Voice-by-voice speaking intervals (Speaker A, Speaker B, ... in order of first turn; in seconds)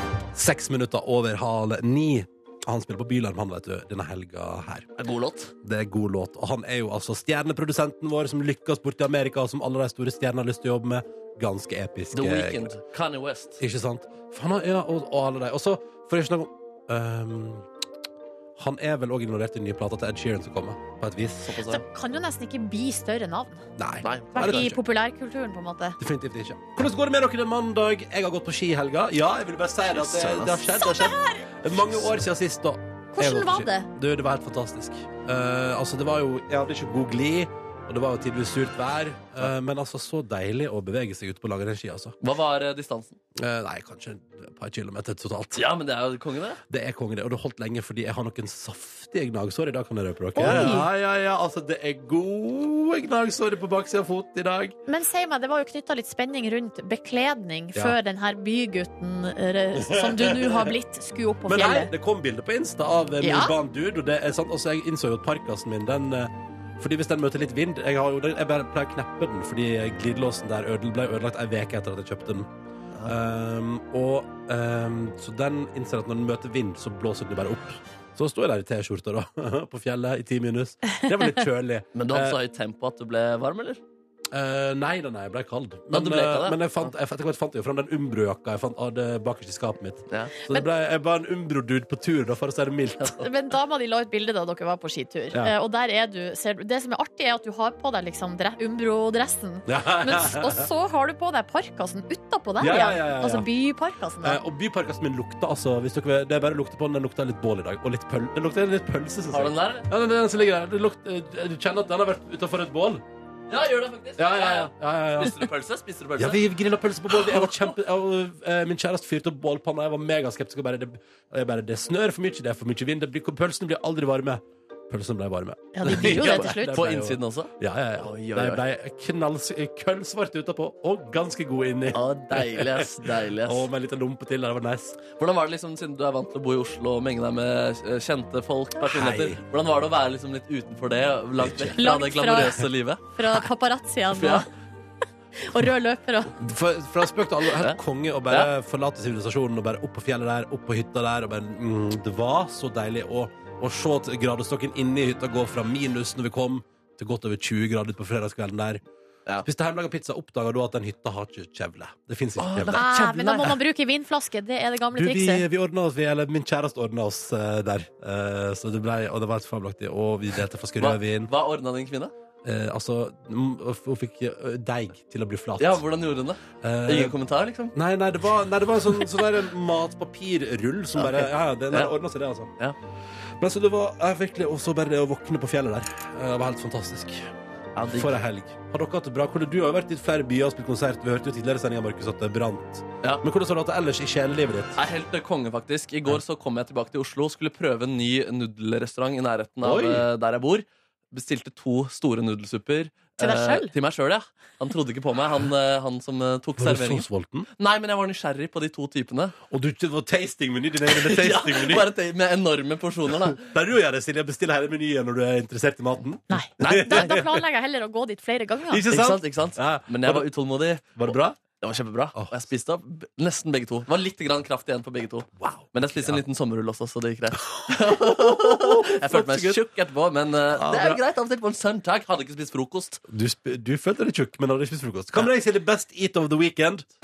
Speaker A: 0.3-4.9, 5.6-12.7, 13.6-17.7, 18.6-21.5, 23.8-24.8, 26.0-42.1, 43.3-45.6, 46.7-54.7, 59.8-60.7, 61.5-72.5, 73.0-82.4, 84.3-93.2, 99.7-100.7, 102.6-103.5, 104.2-113.0, 114.2-115.4, 116.2-135.0, 138.8-139.4, 141.4-141.8, 146.3-158.8, 159.4-162.8, 164.9-171.3, 172.4-175.8, 176.6-177.2, 177.7-182.5, 183.4-187.3, 187.9-194.8, 199.6-200.0, 206.6-207.5, 209.5-211.9, 213.3-217.3, 218.7-220.3, 220.9-221.4, 225.4-226.2, 227.6-229.6, 230.5-231.0, 233.1-236.8
Speaker B: 5.0-5.5, 12.1-13.6, 21.5-21.8, 24.0-24.7, 29.9-30.6, 42.2-43.2, 45.5-46.6, 50.4-50.7, 81.9-83.8, 85.9-86.9, 90.1-90.3, 109.3-109.9, 113.5-116.4, 117.1-117.7, 125.9-128.6, 131.9-133.7, 135.1-143.0, 144.1-144.5, 162.4-163.6, 170.8-172.1, 175.6-177.7, 181.0-181.9, 187.8-188.1, 194.8-209.3, 210.9-213.5, 216.6-217.1, 218.9-233.0
Speaker C: 21.7-23.6, 24.3-26.0, 30.7-31.5, 33.1-33.9, 50.3-50.9, 54.9-61.9, 63.2-63.5, 93.2-104.4, 125.7-126.8, 141.8-144.5, 145.4-146.3, 162.7-165.4, 203.2-203.7, 216.3-218.8